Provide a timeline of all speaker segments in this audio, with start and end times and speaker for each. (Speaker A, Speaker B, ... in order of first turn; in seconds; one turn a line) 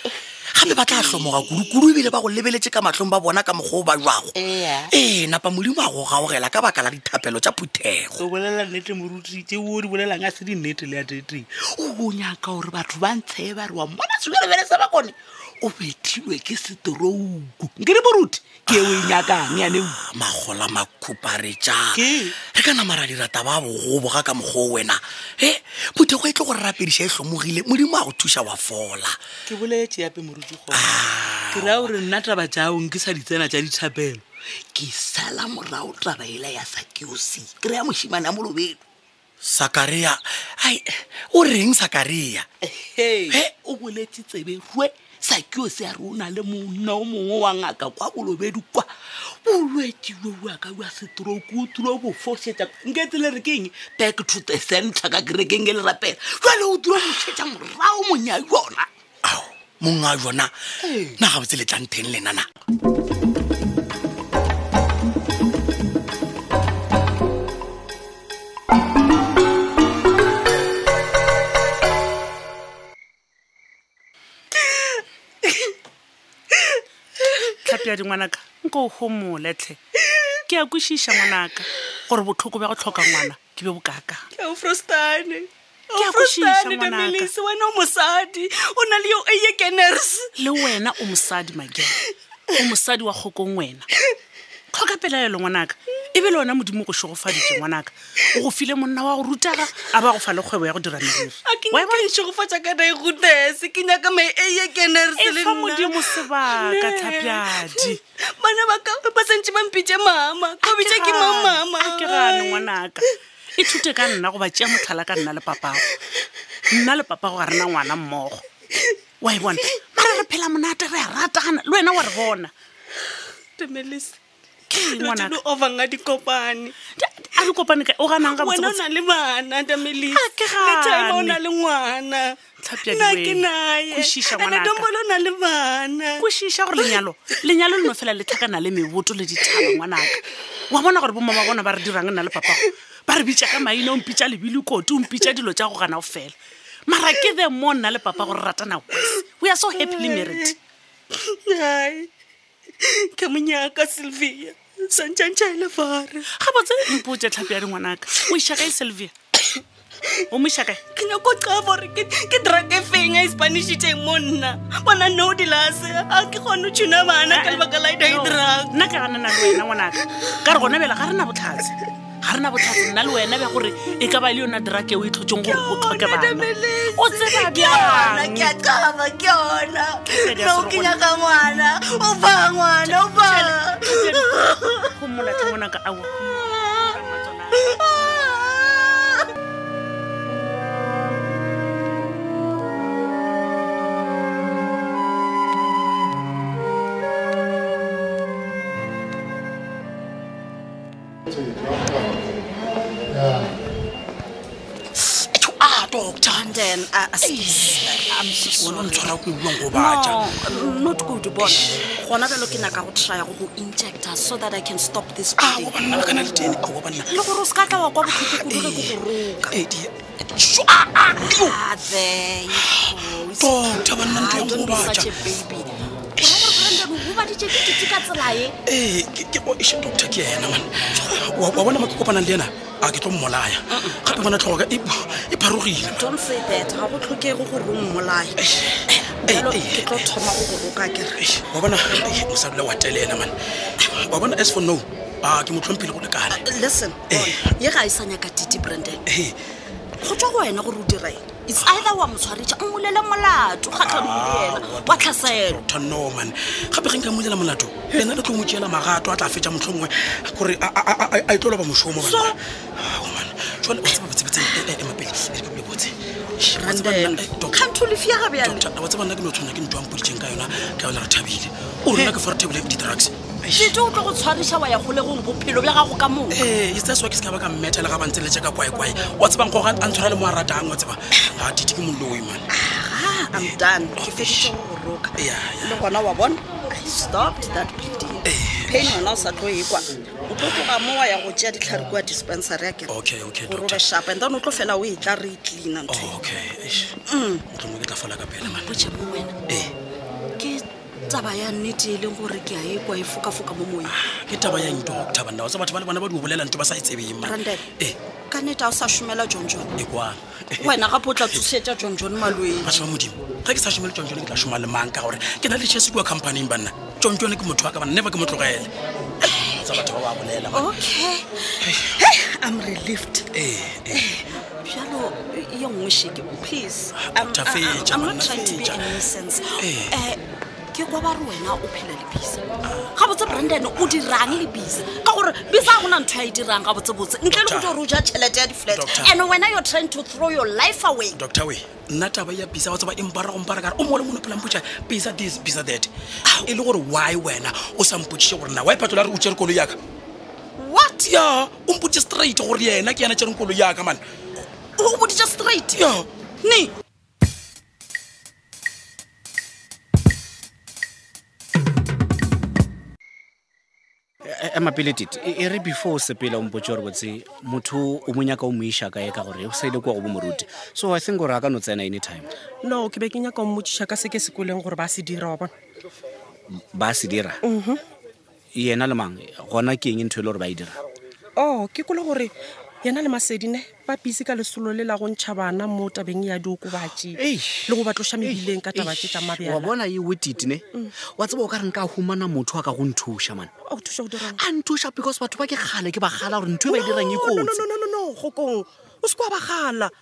Speaker A: 0.1-2.1
Speaker B: 0.5-8.2
Speaker A: 4.3-4.9
Speaker A: 8.2-20.0
Speaker B: 18.7-29.2
Speaker A: 21.9-22.4
Speaker A: 29.5-38.8
Speaker B: 30.7-31.9
Speaker B: 39.4-42.5
Speaker A: 42.6-48.9
Speaker A: 49.4-58.9
Speaker B: 59.2-60.5
Speaker A: 60.8-61.2
Speaker B: 61.2-62.5
Speaker C: 74.5-75.7
Speaker C: 76.5-76.8
Speaker D: 77.5-79.8
Speaker C: 80.0-80.4
Speaker D: 80.5-84.2
Speaker C: 84.3-90.3
Speaker D: 85.9-87.3
Speaker D: 90.3-93.9
Speaker D: 94.7-102.0
Speaker C: 101.4-112.7
Speaker D: 105.2-108.0
Speaker D: 110.6-115.9
Speaker D: 116.7-118.4
Speaker D: 119.2-122.5
Speaker C: 123.6-124.2
Speaker D: 124.7-125.4
Speaker C: 124.7-126.7
Speaker D: 127.0-128.8
Speaker C: 128.2-136.2
Speaker D: 130.1-131.4
Speaker D: 132.6-134.9
Speaker D: 136.2-146.3
Speaker D: 146.9-150.6
Speaker C: 149.8-150.5
Speaker C: 151.1-152.1
Speaker C: 152.8-156.2
Speaker D: 156.3-159.1
Speaker C: 159.5-160.2
Speaker D: 160.3-160.8
Speaker C: 160.9-169.6
Speaker D: 167.3-178.5
Speaker C: 175.4-184.9
Speaker D: 180.2-181.0
Speaker D: 182.8-188.1
Speaker C: 186.3-186.9
Speaker C: 187.6-189.2
Speaker E: 205.0-207.7
Speaker C: 206.2-216.0
Speaker E: 208.6-210.3
Speaker E: 211.4-211.8
Speaker E: 215.4-217.2
Speaker C: 217.1-219.6
Speaker E: 218.0-219.0
Speaker E: 219.5-221.6
Speaker C: 221.2-228.5
Speaker E: 222.5-225.4
Speaker E: 226.2-226.9
Speaker E: 227.5-228.0
Speaker E: 228.7-236.0
Speaker C: 233.7-234.0
Speaker C: 235.9-238.4
Speaker E: 238.4-240.2
Speaker C: 238.9-241.2
Speaker E: 241.2-243.3
Speaker E: 243.9-246.4
Speaker C: 246.3-249.0
Speaker E: 247.1-247.4
Speaker E: 249.1-249.3
Speaker C: 250.0-255.6
Speaker E: 251.5-251.9
Speaker E: 253.8-267.6
Speaker C: 261.9-262.4
Speaker C: 264.3-264.6
Speaker C: 266.4-268.6
Speaker E: 268.4-273.8
Speaker C: 273.5-276.4
Speaker E: 276.3-282.4
Speaker C: 282.5-292.9
Speaker E: 283.3-284.5
Speaker E: 285.2-285.9
Speaker E: 288.2-289.0
Speaker E: 292.9-293.9
Speaker C: 293.4-296.2
Speaker E: 295.9-297.0
Speaker C: 297.1-297.4
Speaker E: 297.5-298.8
Speaker C: 298.4-299.4
Speaker E: 299.5-299.7
Speaker C: 300.4-303.9
Speaker E: 303.8-308.0
Speaker C: 307.2-307.6
Speaker C: 308.3-309.7
Speaker E: 309.8-311.5
Speaker C: 310.6-312.8
Speaker E: 312.6-318.7
Speaker C: 319.2-319.8
Speaker E: 319.2-320.9
Speaker C: 320.5-323.3
Speaker E: 321.6-321.9
Speaker E: 323.3-324.2
Speaker C: 323.9-330.2
Speaker E: 327.0-329.0
Speaker E: 329.6-330.0
Speaker C: 330.7-341.1
Speaker E: 332.7-334.4
Speaker E: 335.6-335.9
Speaker E: 337.3-337.8
Speaker E: 338.7-339.1
Speaker E: 341.1-349.8
Speaker C: 350.6-351.1
Speaker E: 351.0-354.0
Speaker C: 354.8-355.8
Speaker E: 355.7-356.1
Speaker C: 356.4-356.7
Speaker F: 364.2-372.3
Speaker G: 372.6-375.5
Speaker F: 376.5-377.4
Speaker G: 377.4-377.8
Speaker F: 378.5-380.8
Speaker G: 381.4-387.2
Speaker F: 387.1-393.5
Speaker G: 387.7-389.7
Speaker G: 393.7-394.4
Speaker F: 394.3-397.6
Speaker G: 396.7-399.9